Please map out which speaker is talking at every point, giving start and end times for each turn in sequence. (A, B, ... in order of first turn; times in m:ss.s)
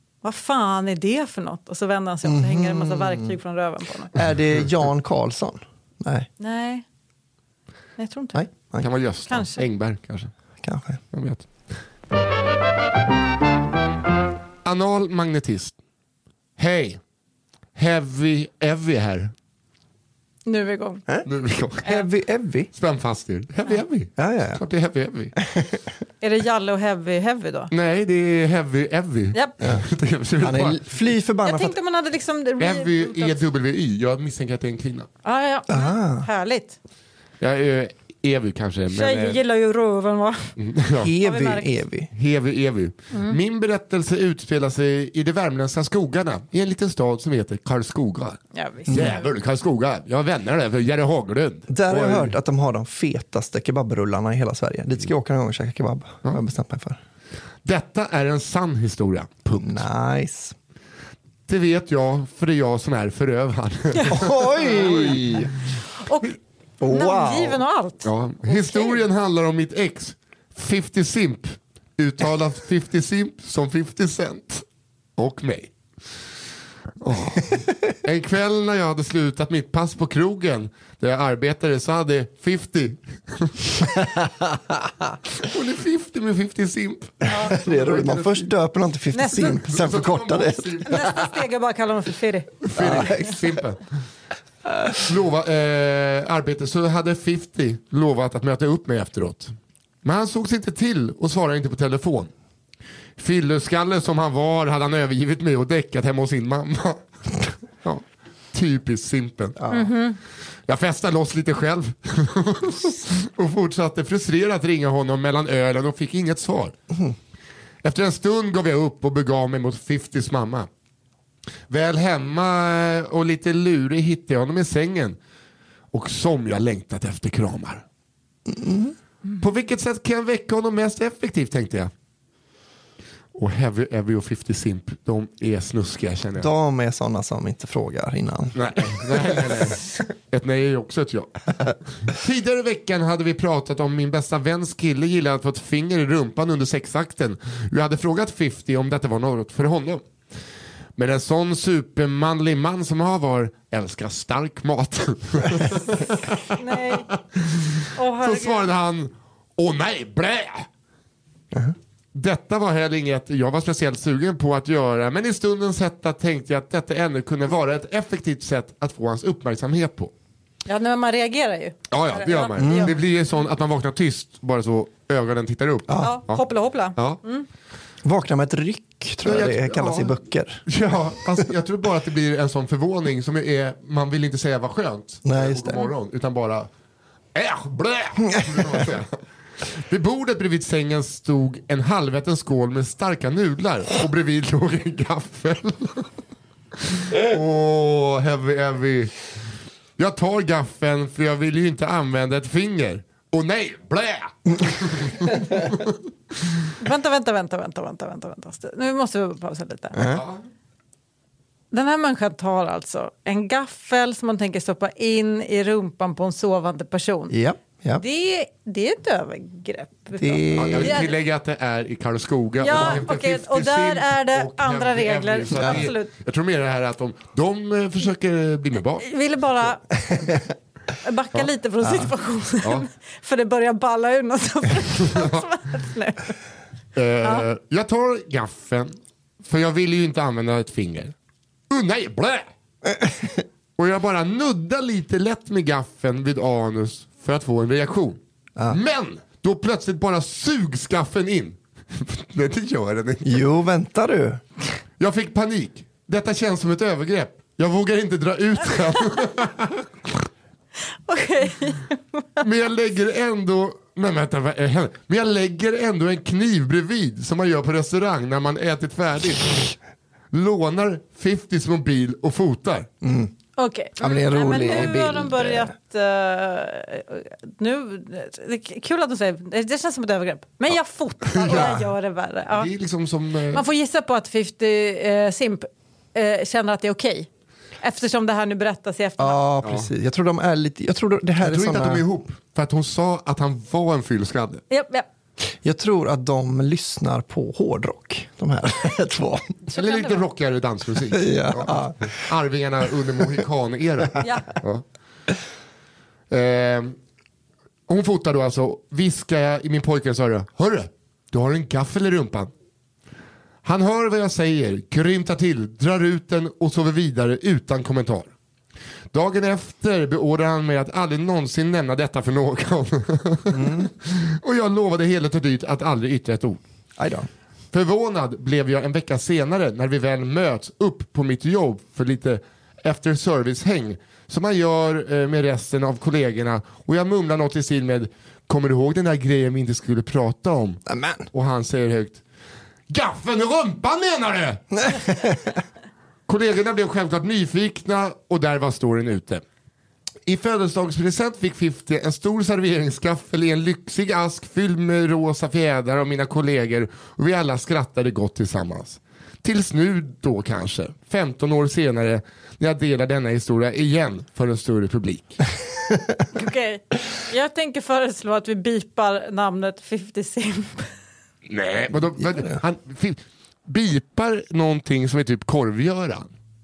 0:00.2-0:04.2 A
0:02.2-0:03.3 B
0:04.1-0:06.3 B
0:06.4-0:06.8 A
0:08.0-0:08.4 A
0:08.3-0:08.9 B
0:08.8-0:10.3 C
0:09.3-0:09.6 A
0:10.6-0:11.0 B
0:11.1-0:11.5 C
0:14.6-0:15.7 C
0:16.6-0:17.0 C
0:17.7-0:19.3 C
0:20.4-0:21.0 A
0:21.2-0:22.0 C
0:21.8-0:22.7 B
0:22.7-0:25.3 C
0:24.2-0:24.6 B
0:25.4-0:25.8 B
0:26.2-0:27.7 A
0:27.7-0:30.9 C
0:30.4-0:31.8 B
0:31.4-0:33.4 A
0:32.6-0:35.1 C
0:35.2-0:36.8 A
0:35.7-0:36.3 B
0:37.4-0:39.4 C
0:38.9-0:40.5 A
0:40.6-0:41.1 C
0:41.0-0:42.1 B
0:41.2-0:41.8 A
0:42.1-0:52.3 C
0:48.5-0:49.2 A
0:51.7-0:57.0 B
0:57.6-0:59.8 C
0:59.6-1:00.6 B
1:01.5-1:05.5 C
1:04.1-1:05.5 B
1:06.0-1:06.4 A
1:06.8-1:07.6 B
1:06.9-1:09.0 A
1:08.0-1:14.6 C
1:15.2-1:15.7 C
1:17.0-1:23.9 C
1:25.4-1:28.5 C
1:27.2-1:27.5 A
1:27.4-1:31.0 B
1:29.1-1:29.6 A
1:29.5-1:31.3 C
1:30.8-1:32.5 A
1:32.6-1:33.8 C
1:32.8-1:33.6 B
1:35.0-1:39.5 C
1:40.0-1:42.3 C
1:43.2-1:49.6 C
1:49.6-1:49.9 B
1:49.7-1:50.2 A
1:50.7-1:56.7 C
1:57.8-2:00.7 C
2:01.7-2:05.2 C
2:05.9-2:07.8 C
2:08.5-2:08.9 B
2:09.4-2:11.9 C
2:13.3-2:16.5 C
2:16.4-2:19.6 B
2:18.5-2:30.0 C
2:31.0-2:40.7 C
2:36.5-2:37.1 A
2:37.9-2:38.7 A
2:42.1-2:50.1 C
2:50.7-2:53.0 A
2:51.9-2:56.4 C
2:52.6-2:53.0 B
2:55.9-2:56.2 B
2:56.0-2:57.5 A
2:58.0-3:00.7 B
2:59.2-3:00.1 C
3:00.7-3:06.7 C
3:05.2-3:05.8 B
3:07.3-3:16.1 C
3:08.2-3:08.8 B
3:16.8-3:19.2 C
3:20.0-3:26.0 C
3:26.8-3:30.0 A
3:29.9-3:30.2 B
3:30.0-3:30.4 C
3:31.7-3:37.3 A
3:37.3-3:38.0 B
3:38.0-3:41.1 A
3:40.2-3:41.1 B
3:40.6-3:49.1 C
3:42.6-3:46.1 A
3:49.0-3:49.8 A
3:50.1-3:50.4 B
3:51.0-3:56.3 A
3:55.0-3:55.4 C
3:56.9-4:01.1 C
4:01.7-4:02.5 C
4:02.9-4:03.4 B
4:03.8-4:13.4 C
4:13.2-4:14.4 B
4:15.0-4:20.3 C
4:21.1-4:22.4 A
4:22.4-4:29.7 C
4:30.3-4:32.9 C
4:33.0-4:33.3 B
4:33.6-4:42.7 A
4:34.0-4:35.7 B
4:41.4-4:41.8 C
4:41.5-4:41.9 B
4:42.5-4:43.6 C
4:43.5-4:47.3 A
4:47.8-4:49.4 A
4:49.2-4:52.0 B
4:49.6-4:49.9 C
4:51.4-4:54.6 C
4:54.7-4:55.0 A
4:55.5-4:59.6 B
4:59.7-5:00.2 A
4:59.7-5:04.8 C
5:01.1-5:02.1 B
5:04.2-5:04.5 A
5:06.3-5:07.0 C
5:07.9-5:12.5 C
5:13.6-5:18.3 C
5:19.1-5:26.6 C
5:23.5-5:23.9 B
5:27.0-5:27.3 B
5:27.7-5:40.8 C
5:40.8-5:41.3 B
5:41.3-5:42.2 C
5:42.9-5:44.8 C
5:44.7-5:45.6 B
5:46.3-5:49.4 C
5:50.2-6:05.4 C
6:06.3-6:10.9 A
6:11.5-6:16.3 C